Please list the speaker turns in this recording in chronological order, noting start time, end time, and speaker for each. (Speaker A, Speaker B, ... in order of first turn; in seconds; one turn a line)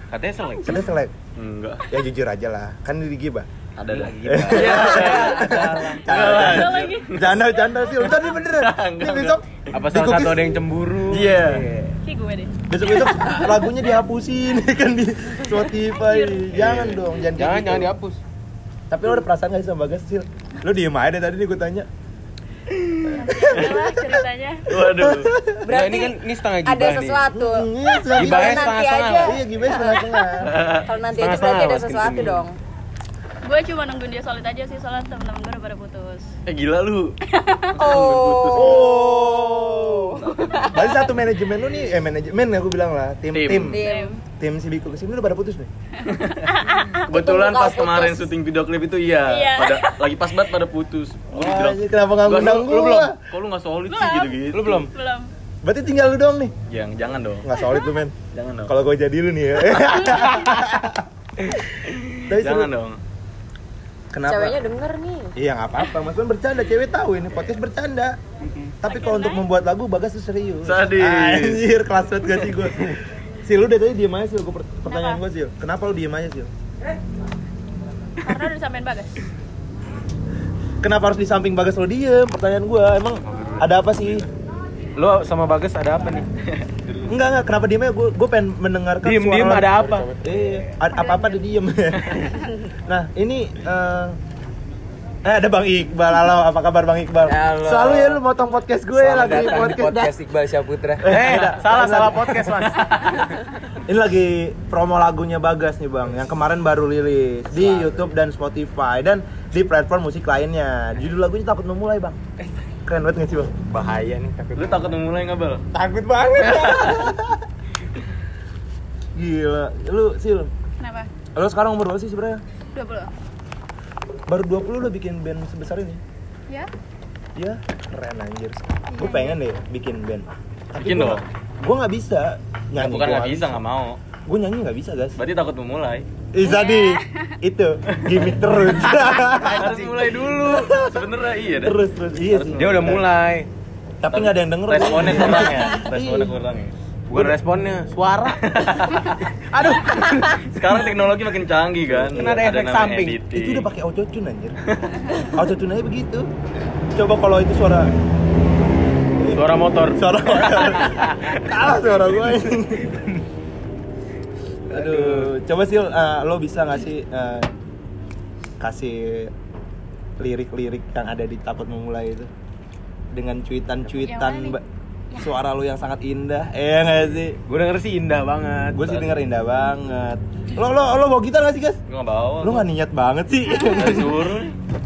Speaker A: 0.1-0.8
Speaker B: 0.6-1.1
Speaker C: 1.4-1.9
Speaker B: 1.9-3.5
Speaker C: 3.8-7.2
Speaker A: 3.9-6.1
Speaker B: 4.2-10.6
Speaker D: 6.1-8.0
Speaker C: 8.5-9.7
Speaker A: 9.7-12.0
Speaker C: 11.1-11.6
Speaker D: 12.0-13.7
Speaker B: 12.7-17.9
Speaker D: 15.5-16.6
Speaker A: 16.6-18.2
Speaker B: 18.9-21.9
Speaker D: 23.1-24.7
Speaker B: 23.1-24.2
Speaker C: 24.7-25.3
Speaker B: 24.8-25.7
Speaker E: 25.6-29.7
Speaker A: 25.7-27.3
Speaker B: 27.3-30.5
Speaker A: 28.2-29.4
Speaker D: 29.7-30.4
Speaker C: 30.5-30.9
Speaker E: 30.9-32.6
Speaker A: 31.1-32.5
Speaker D: 33.5-36.3
Speaker C: 36.5-37.1
Speaker D: 37.3-37.8
Speaker C: 37.7-38.9
Speaker E: 37.8-40.7
Speaker B: 38.5-43.8
Speaker C: 43.3-43.8
Speaker E: 43.7-44.2
Speaker D: 43.8-44.2
Speaker B: 44.4-45.7
Speaker D: 46.0-47.1
Speaker C: 46.0-46.5
Speaker C: 47.1-54.9
Speaker E: 47.1-48.3
Speaker D: 49.2-50.1
Speaker B: 51.3-53.1
Speaker D: 53.9-55.3
Speaker A: 54.5-54.9
Speaker B: 55.6-56.5
Speaker C: 56.7-57.5
Speaker B: 57.4-58.2
Speaker D: 57.6-57.9
Speaker C: 58.3-58.7
Speaker B: 58.7-62.7
Speaker C: 61.8-63.0
Speaker B: 64.1-64.6
Speaker E: 64.3-65.3
Speaker B: 65.4-68.2
Speaker A: 68.5-68.7
Speaker B: 68.8-76.5
Speaker D: 68.8-69.5
Speaker C: 70.7-71.6
Speaker D: 74.9-75.2
Speaker D: 78.2-79.2
Speaker B: 80.8-84.3
Speaker A: 83.3-83.7
Speaker A: 85.0-86.3
Speaker C: 86.5-87.1
Speaker B: 87.1-92.2
Speaker A: 89.0-90.2
Speaker D: 91.0-91.4
Speaker B: 92.9-94.2
Speaker B: 95.2-100.2
Speaker F: 97.3-97.9
Speaker A: 97.6-98.2
Speaker F: 98.9-101.2
Speaker A: 99.3-99.8
Speaker B: 101.0-102.5
Speaker A: 101.0-102.9
Speaker C: 102.8-103.1
Speaker B: 103.8-112.2
Speaker F: 107.5-108.0
Speaker B: 112.9-113.6
Speaker F: 113.7-115.0
Speaker C: 114.5-115.7
Speaker F: 115.7-117.0
Speaker B: 116.4-117.4
Speaker C: 116.4-117.0
Speaker B: 119.2-120.5
Speaker D: 120.8-121.1
Speaker B: 121.4-122.4
Speaker D: 122.7-123.1
Speaker B: 124.3-126.0
Speaker B: 127.4-133.6
Speaker D: 128.9-129.4
Speaker C: 130.8-131.2
Speaker C: 132.8-134.0
Speaker B: 134.3-135.2
Speaker C: 135.2-136.1
Speaker B: 136.3-143.1
Speaker D: 136.4-137.3
Speaker C: 137.9-138.3
Speaker C: 139.0-142.9
Speaker A: 142.6-143.5
Speaker B: 144.0-146.3
Speaker C: 144.1-146.7
Speaker A: 144.7-145.6
Speaker A: 147.1-148.4
Speaker C: 148.4-149.2
Speaker A: 149.5-150.6
Speaker B: 149.6-149.9
Speaker C: 150.5-153.7
Speaker A: 151.9-153.2
Speaker B: 152.1-152.5
Speaker B: 153.3-154.6
Speaker C: 154.7-155.0
Speaker B: 155.3-156.3
Speaker B: 156.9-157.9
Speaker B: 159.2-163.0
Speaker A: 159.3-160.0
Speaker B: 164.7-167.5
Speaker A: 164.7-165.3
Speaker B: 168.6-169.3
Speaker B: 170.2-172.3
Speaker B: 173.1-174.6
Speaker D: 174.0-174.6
Speaker B: 175.2-177.4
Speaker A: 177.5-178.9
Speaker B: 178.7-181.8
Speaker C: 181.9-182.7
Speaker B: 182.4-184.4
Speaker C: 183.7-184.5